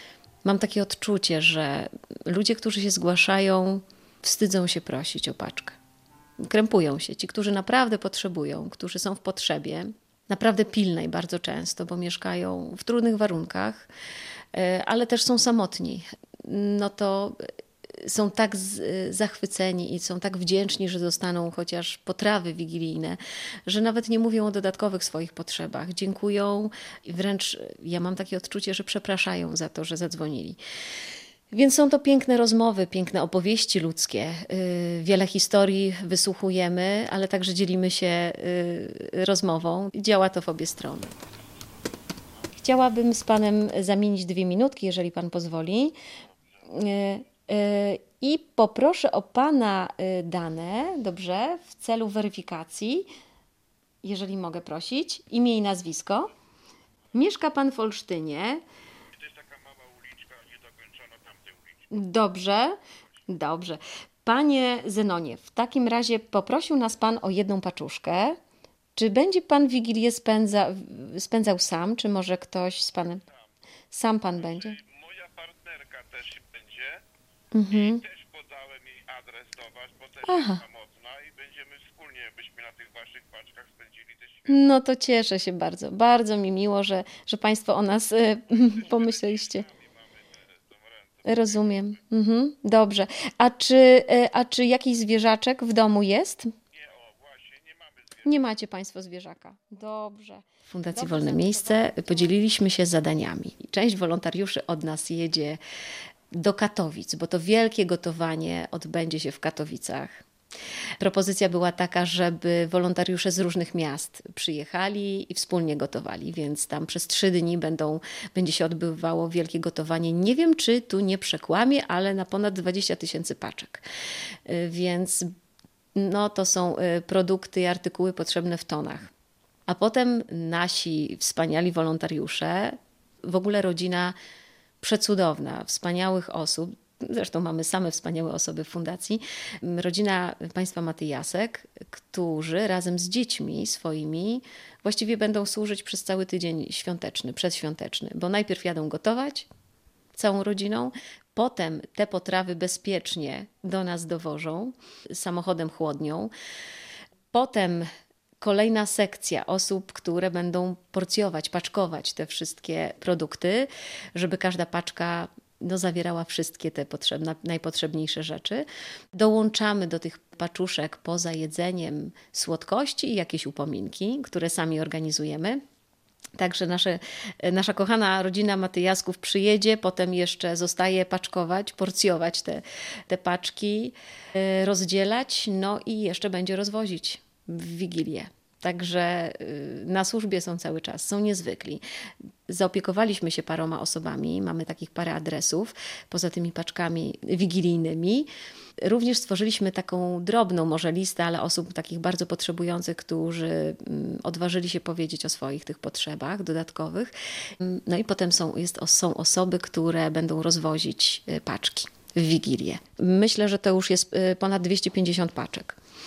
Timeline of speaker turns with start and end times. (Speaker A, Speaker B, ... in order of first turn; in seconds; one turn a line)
Speaker A: 0.4-5.8
Speaker A: 6.4-13.9
Speaker A: 14.5-30.6
Speaker A: 31.5-41.1
Speaker A: 42.6-46.0
Speaker A: 46.7-53.1
Speaker A: 54.0-56.3
Speaker A: 57.1-58.6
Speaker B: 59.1-61.9
Speaker A: 61.9-62.8
Speaker A: 63.3-68.4
Speaker A: 69.0-73.2
Speaker B: 73.1-73.5
Speaker A: 73.9-74.8
Speaker B: 74.3-77.0
Speaker A: 77.5-78.0
Speaker B: 77.7-84.6
Speaker A: 80.2-80.6
Speaker A: 84.5-89.6
Speaker B: 88.5-92.0
Speaker A: 91.2-96.5
Speaker B: 96.7-98.3
Speaker A: 98.2-105.6
Speaker A: 106.3-110.2
Speaker A: 111.0-123.8
Speaker A: 124.5-125.3
Speaker A: 126.0-129.1
Speaker A: 129.7-134.2
Speaker A: 134.8-149.5
Speaker A: 150.1-156.3
Speaker A: 157.3-157.9
Speaker A: 158.4-175.6
Speaker A: 176.4-191.8
Speaker A: 192.5-198.3
Speaker A: 198.8-215.8